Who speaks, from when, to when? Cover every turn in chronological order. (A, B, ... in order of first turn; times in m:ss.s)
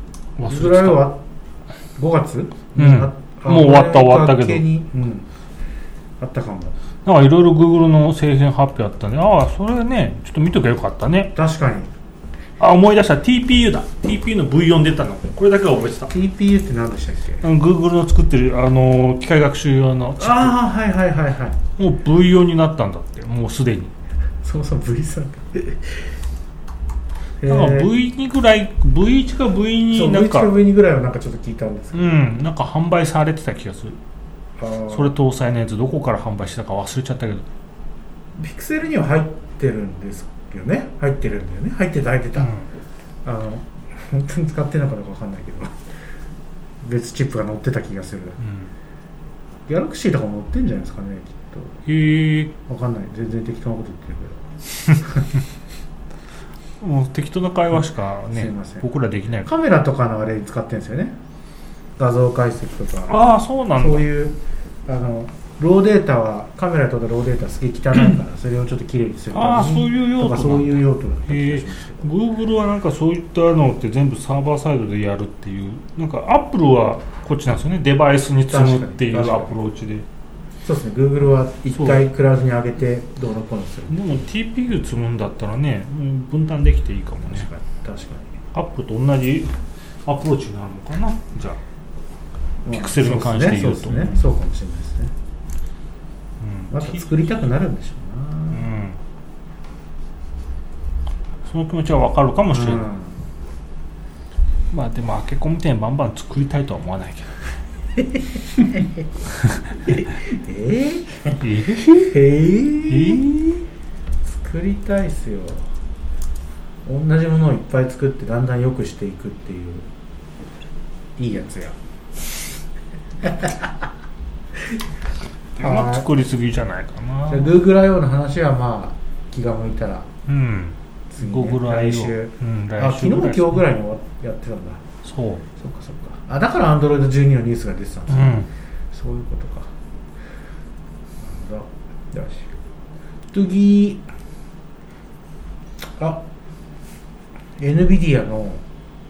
0:00.4-0:01.1 A
0:00.4-0:01.2 B
0:02.0-0:05.3 B
0:02.8-0:04.6 A
0:06.2-0:06.7 B
0:07.0-0:11.3 A
0:11.3-0:11.9 B
0:12.6-0:16.1 A
0:16.1-0:17.4 B
0:17.4-0:20.6 A
0:20.2-0:21.6 B
0:21.8-0:23.9 A
0:24.4-0:26.0 B
0:27.4-0:27.9 B
0:27.4-0:30.5 A
0:29.9-0:32.2 B
0:31.9-0:34.0 A
0:34.6-0:35.1 B
0:34.9-0:37.4 A
0:38.4-0:42.5 B
0:42.4-0:42.6 A
0:43.2-0:45.8 B
0:46.8-0:48.4 B
0:49.7-0:51.8 B
0:51.9-0:52.5 A
0:52.6-0:55.2 B
0:56.8-0:59.5 A
0:58.3-0:58.8 B
0:59.4-1:01.2 B
1:02.0-1:03.2 B
1:03.1-1:04.0 A
1:03.8-1:12.1 B
1:09.3-1:20.0 A
1:18.5-1:19.6 B
1:20.6-1:24.3 B
1:21.7-1:22.0 A
1:23.9-1:27.5 A
1:27.3-1:28.3 B
1:28.5-1:29.5 A
1:30.0-1:31.6 A
1:32.6-1:35.1 B
1:32.7-1:34.2 A
1:36.4-1:37.1 A
1:36.7-1:38.7 B
1:38.5-1:39.0 A
1:41.4-1:42.9 A
1:42.5-1:43.2 B
1:44.7-1:47.5 A
1:49.8-1:53.3 B
1:51.4-1:52.2 A
1:52.9-1:53.6 A
1:54.2-1:55.6 B
1:56.8-1:59.9 B
2:01.2-2:01.8 B
2:03.2-2:03.7 B
2:05.6-2:07.6 A
2:05.6-2:06.1 B
2:07.3-2:10.1 B
2:10.3-2:13.6 A
2:11.1-2:14.8 B
2:15.0-2:15.4 A
2:15.6-2:19.7 B
2:18.1-2:18.5 A
2:21.2-2:22.5 B
2:23.3-2:24.0 B
2:26.0-2:26.2 B
2:27.6-2:28.6 B